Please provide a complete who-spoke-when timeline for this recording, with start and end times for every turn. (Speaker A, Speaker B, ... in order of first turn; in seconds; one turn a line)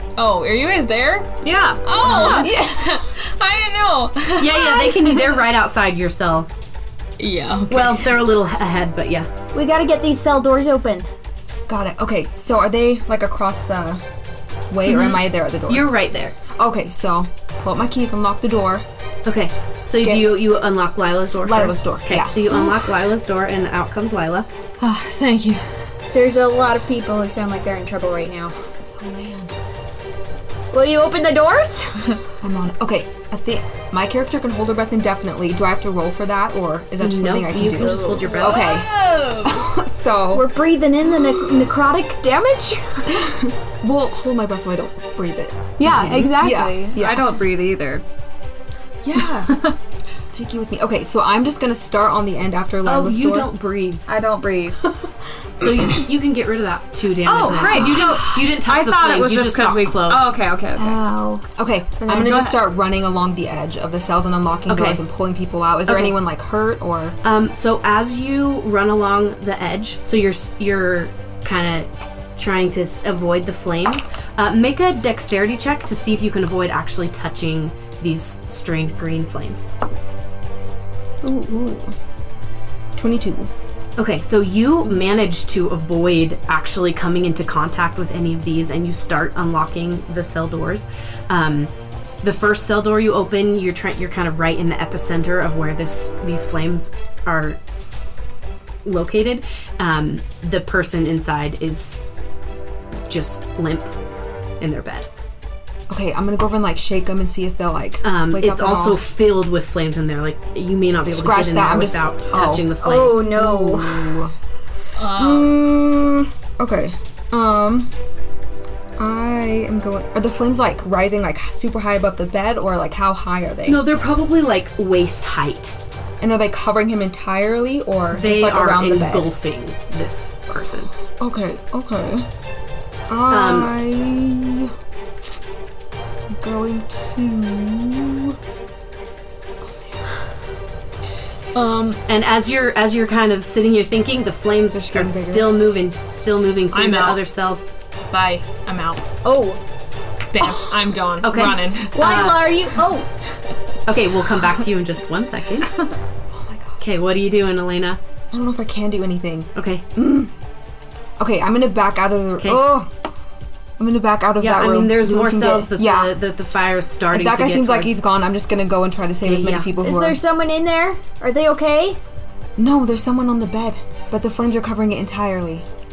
Speaker A: 0.2-1.3
Speaker B: 1.4-1.8
Speaker A: 1.9-5.3
Speaker C: 2.0-2.5
Speaker D: 2.1-2.9
Speaker E: 4.4-6.5
Speaker A: 7.2-8.2
Speaker E: 7.7-9.3
Speaker C: 9.5-11.1
Speaker D: 11.7-14.0
Speaker D: 14.7-15.9
Speaker E: 14.9-15.2
Speaker E: 15.7-16.4
Speaker D: 16.5-18.9
Speaker E: 19.2-24.5
Speaker D: 19.9-20.4
Speaker D: 21.4-22.9
Speaker A: 24.8-25.9
Speaker C: 26.1-28.6
Speaker D: 28.9-29.5
Speaker C: 30.7-32.2
Speaker D: 32.4-40.5
Speaker E: 37.0-38.8
Speaker C: 37.7-38.6
Speaker A: 38.6-39.6
Speaker C: 40.3-43.3
Speaker D: 43.1-47.3
Speaker C: 45.8-47.0
Speaker E: 45.8-46.4
Speaker B: 47.0-48.0
Speaker D: 49.0-49.6
Speaker D: 50.3-53.5
Speaker E: 52.8-54.1
Speaker B: 54.1-54.9
Speaker E: 55.6-60.4
Speaker B: 57.2-61.0
Speaker C: 57.5-57.9
Speaker D: 57.8-58.1
Speaker C: 60.8-61.5
Speaker D: 61.6-67.2
Speaker C: 62.1-62.5
Speaker E: 64.7-65.0
Speaker E: 65.9-66.2
Speaker E: 67.2-79.7
Speaker D: 81.2-82.0
Speaker D: 83.0-83.5
Speaker E: 84.0-91.7
Speaker E: 92.2-97.6
Speaker E: 98.8-102.0
Speaker E: 103.1-103.9
Speaker E: 104.6-105.1
Speaker D: 105.9-109.0
Speaker E: 108.0-113.3
Speaker D: 111.0-112.7
Speaker C: 112.8-114.2
Speaker D: 113.2-114.3
Speaker A: 115.0-115.6
Speaker D: 115.1-117.9
Speaker D: 119.0-123.8
Speaker E: 123.7-125.8
Speaker D: 126.2-129.3
Speaker E: 128.1-130.9
Speaker D: 131.2-132.3
Speaker D: 133.1-134.7
Speaker E: 133.3-133.7
Speaker D: 136.3-138.4
Speaker D: 139.7-140.0
Speaker A: 141.5-142.0
Speaker E: 142.1-147.7
Speaker D: 144.7-145.5
Speaker A: 146.7-147.2
Speaker A: 148.1-149.0
Speaker C: 149.2-149.6
Speaker A: 150.3-152.2
Speaker E: 151.2-152.6
Speaker C: 151.9-153.1
Speaker E: 153.9-155.7
Speaker D: 156.3-156.8
Speaker E: 156.8-158.0
Speaker D: 158.3-160.3
Speaker E: 159.6-159.8
Speaker D: 161.2-162.9
Speaker E: 162.4-162.7
Speaker D: 163.8-166.2
Speaker E: 164.4-167.9
Speaker D: 167.1-170.2
Speaker E: 169.2-169.7
Speaker C: 169.8-172.0
Speaker D: 172.6-175.7